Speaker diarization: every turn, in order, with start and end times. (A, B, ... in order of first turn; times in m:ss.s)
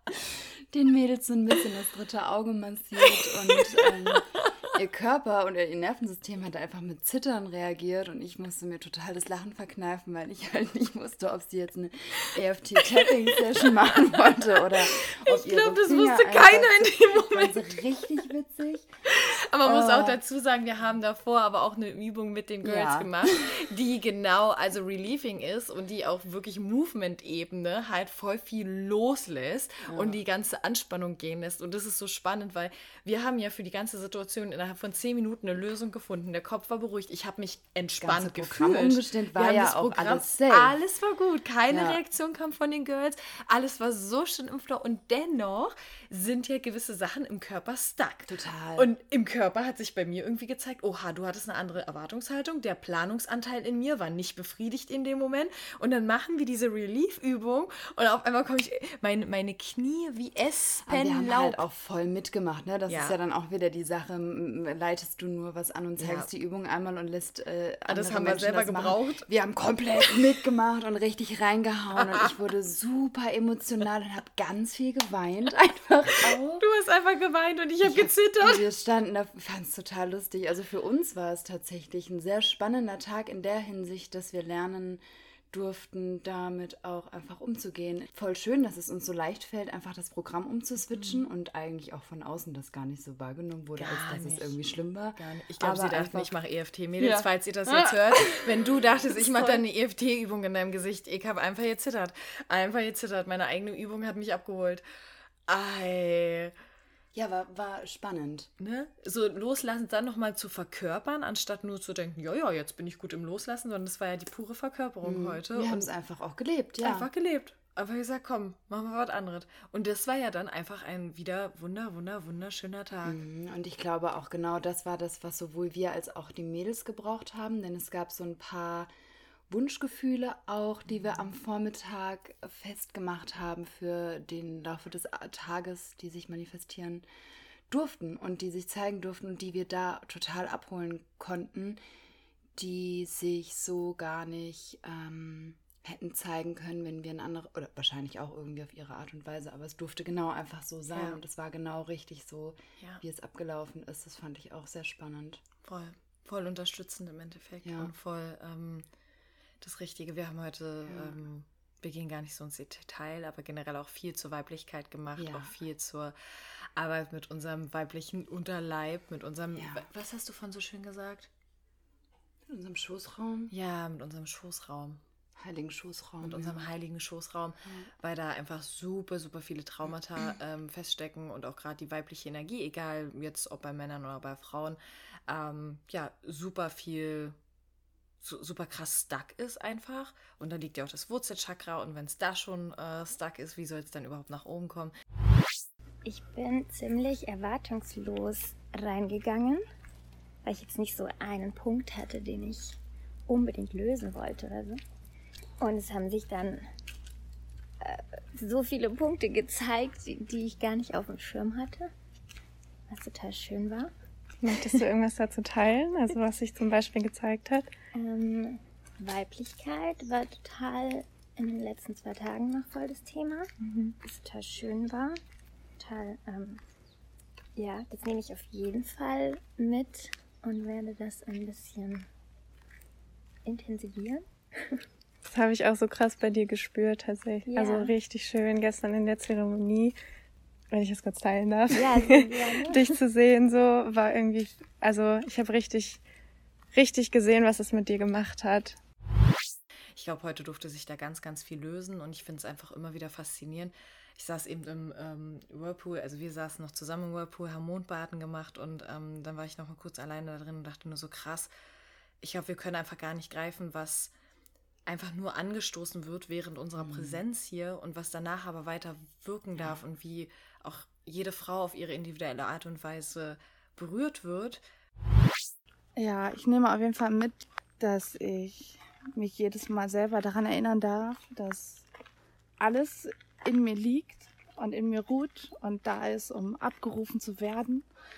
0:00.7-0:18.9 A
0:14.3-0:17.8 B
0:19.0-1:01.6 B
0:19.6-0:20.2 A
0:22.6-0:23.5 A
0:29.8-0:30.2 A
0:38.0-0:40.8 A
0:41.7-0:42.0 A
0:48.3-0:48.9 A
1:00.8-1:16.6 A
1:02.9-1:03.2 B
1:06.0-1:06.3 B
1:07.9-1:09.3 B
1:16.3-1:18.6 B
1:17.8-1:36.3 A
1:30.9-1:31.2 B
1:33.8-1:34.6 B
1:35.1-1:44.8 B
1:37.0-1:38.3 A
1:45.5-1:46.5 B
1:47.1-1:48.5 A
1:48.6-1:55.9 B
1:55.0-1:57.1 A
1:56.8-2:03.2 B
2:03.0-2:08.9 A
2:09.5-2:17.0 A
2:17.7-2:21.8 A
2:22.6-2:35.4 A
2:30.9-2:31.2 B
2:35.6-2:38.9 B
2:37.6-2:37.9 A
2:39.6-2:51.3 B
2:40.9-2:41.2 A
2:45.2-2:45.5 A
2:49.6-2:49.8 A
2:52.5-2:53.5 A
2:53.5-2:55.0 B
2:55.4-2:56.6 A
2:56.2-3:07.4 B
2:57.6-2:57.9 A
3:08.2-3:14.9 B
3:16.0-3:19.6 C
3:20.4-3:22.8 C
3:23.3-3:24.8 C
3:25.6-3:26.6 C
3:27.8-3:31.9 C
3:32.9-3:33.9 C
3:34.4-3:37.7 D
3:37.9-3:45.2 C
3:45.8-3:46.6 C
3:47.6-3:52.1 C
3:53.4-3:54.8 C
3:55.2-4:00.0 D
3:57.5-3:57.9 C
4:00.7-4:06.0 D
4:01.7-4:02.9 C
4:06.7-4:08.8 D
4:09.9-4:21.5 B
4:22.2-4:24.1 B
4:24.8-4:34.6 B
4:26.8-4:27.2 A
4:36.0-4:41.8 E
4:42.6-4:47.8 E